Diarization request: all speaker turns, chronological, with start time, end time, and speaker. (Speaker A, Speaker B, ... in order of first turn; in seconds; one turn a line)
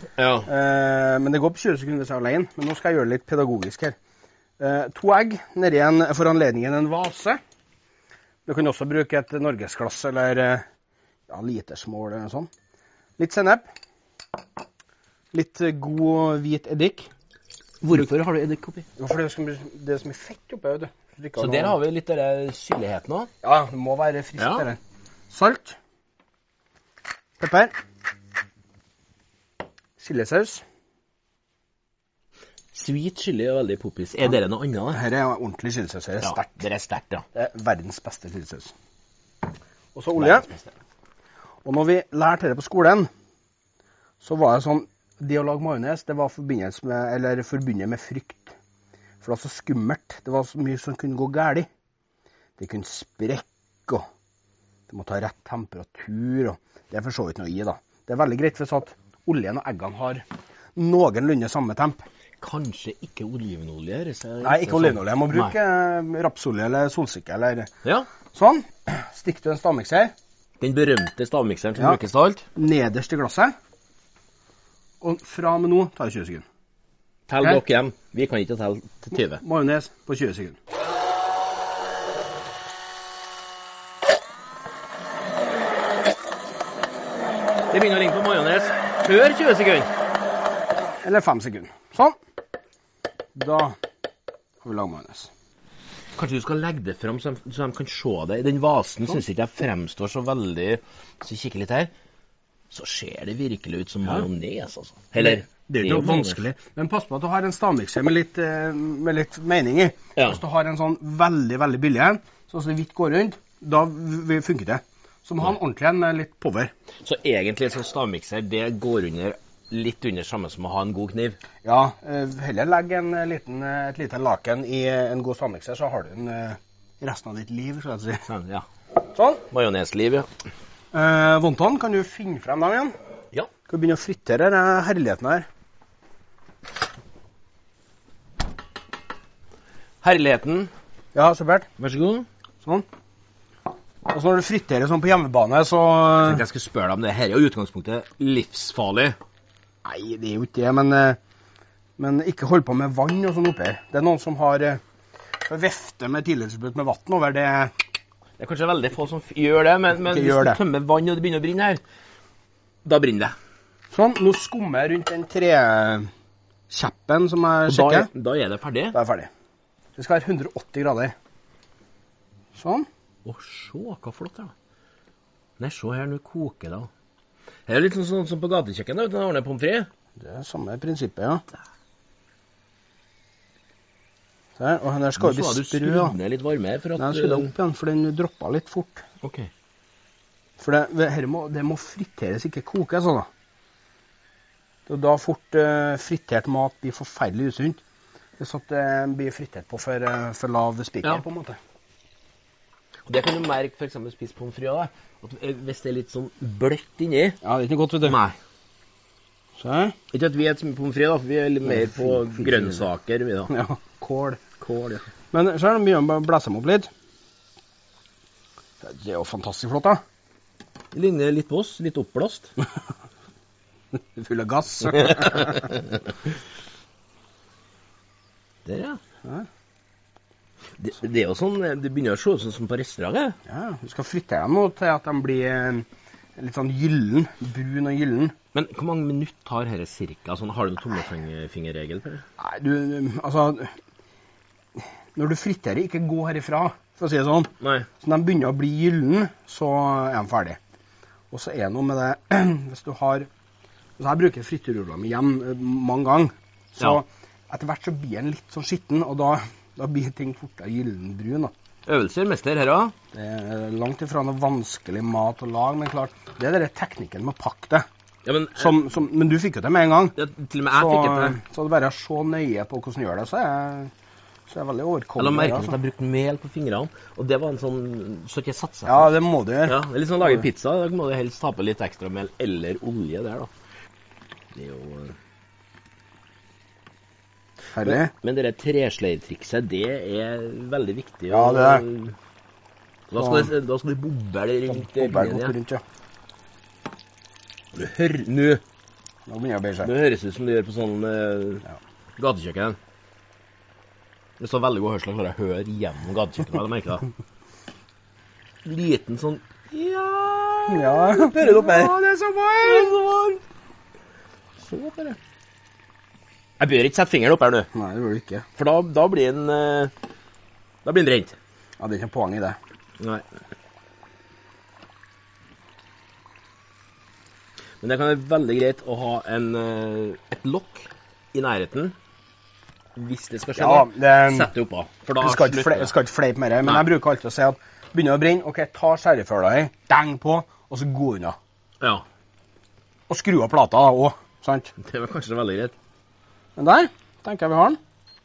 Speaker A: 0.2-0.5
Speaker B: 0.5-4.0
Speaker B: 4.6-7.4
Speaker B: 8.4-10.6
Speaker B: 11.3-12.5
Speaker B: 13.2-13.7
Speaker B: 15.3-17.1
Speaker A: 17.8-18.9
Speaker B: 19.0-21.8
Speaker A: 21.4-23.3
Speaker B: 23.4-24.8
Speaker A: 24.4-24.6
Speaker B: 25.3-25.8
Speaker B: 27.4-27.7
Speaker B: 30.0-30.6
Speaker A: 32.7-35.0
Speaker B: 34.9-36.6
Speaker A: 36.2-37.2
Speaker B: 37.3-38.7
Speaker B: 39.9-40.5
Speaker A: 40.2-40.7
Speaker B: 41.6-43.1
Speaker B: 44.2-48.5
Speaker B: 49.2-51.6
Speaker B: 52.6-54.0
Speaker B: 54.9-60.2
Speaker B: 60.8-62.0
Speaker A: 62.4-65.5
Speaker B: 64.4-67.7
Speaker A: 67.8-68.1
Speaker B: 68.3-70.1
Speaker A: 70.6-72.4
Speaker B: 72.5-73.5
Speaker B: 75.0-76.4
Speaker A: 77.3-79.4
Speaker B: 79.2-80.5
Speaker A: 87.7-89.9
Speaker B: 91.0-92.2
Speaker B: 93.3-93.8
Speaker B: 94.6-95.3
Speaker A: 96.2-101.9
Speaker A: 102.7-106.4
Speaker B: 105.2-116.7
Speaker A: 117.0-121.4
Speaker B: 121.6-128.2
Speaker A: 128.3-128.7
Speaker B: 129.1-129.4
Speaker A: 129.5-130.3
Speaker B: 130.9-132.9
Speaker B: 133.7-135.4
Speaker A: 140.0-140.7
Speaker B: 141.1-141.7
Speaker A: 141.8-142.3
Speaker B: 144.1-146.4
Speaker A: 146.2-149.2
Speaker B: 149.8-151.2
Speaker B: 152.0-154.8
Speaker B: 155.4-157.7
Speaker A: 158.4-161.8
Speaker B: 159.9-160.6
Speaker A: 162.8-163.3
Speaker B: 163.9-166.1
Speaker B: 166.7-168.1
Speaker A: 167.7-168.9
Speaker B: 168.9-169.3
Speaker B: 170.0-171.1
Speaker B: 172.5-172.8
Speaker A: 173.2-174.5
Speaker A: 175.6-176.9
Speaker A: 177.7-179.9
Speaker B: 180.2-181.4
Speaker B: 184.6-186.2
Speaker A: 185.2-187.5
Speaker B: 187.0-189.0
Speaker A: 189.2-189.5
Speaker B: 190.6-193.3
Speaker B: 194.9-197.8
Speaker B: 198.4-201.6
Speaker A: 203.1-207.4
Speaker B: 207.4-208.2
Speaker A: 208.0-208.4
Speaker B: 209.6-209.9
Speaker A: 210.1-213.5
Speaker B: 211.6-212.9
Speaker B: 213.5-214.4
Speaker A: 214.6-215.0
Speaker B: 215.3-216.9
Speaker B: 218.8-220.0
Speaker A: 220.9-222.5
Speaker B: 224.1-225.7
Speaker A: 225.1-225.9
Speaker A: 228.7-229.0
Speaker A: 230.8-233.4
Speaker B: 233.5-235.8
Speaker B: 236.4-238.3
Speaker A: 238.5-242.2
Speaker B: 242.4-243.7
Speaker B: 244.8-247.5
Speaker A: 247.6-247.9
Speaker B: 248.0-250.6
Speaker B: 251.3-253.3
Speaker B: 254.0-261.5
Speaker A: 261.9-262.9
Speaker B: 263.1-267.8
Speaker A: 268.2-268.8
Speaker B: 268.6-270.1
Speaker A: 270.1-271.4
Speaker B: 270.7-273.9
Speaker B: 274.5-275.8
Speaker A: 275.2-279.1
Speaker B: 278.9-280.5
Speaker A: 279.6-283.5
Speaker A: 284.5-285.1
Speaker B: 287.7-288.1
Speaker A: 287.8-292.2
Speaker B: 291.3-291.8
Speaker A: 293.1-295.5
Speaker B: 293.1-293.5
Speaker B: 294.7-295.8
Speaker A: 297.7-298.6
Speaker B: 299.3-299.9
Speaker A: 299.8-301.6
Speaker A: 302.2-302.8
Speaker A: 304.4-307.1
Speaker A: 308.6-313.4
Speaker B: 310.7-312.9
Speaker A: 314.6-315.2
Speaker A: 316.6-317.7
Speaker B: 317.7-318.4
Speaker A: 318.6-319.9
Speaker A: 320.8-321.4
Speaker B: 321.8-322.6
Speaker A: 323.0-323.2
Speaker A: 327.8-331.9
Speaker A: 332.9-335.9
Speaker B: 333.6-334.5
Speaker B: 335.2-341.4
Speaker B: 343.1-344.7
Speaker A: 344.8-345.7
Speaker B: 346.6-347.8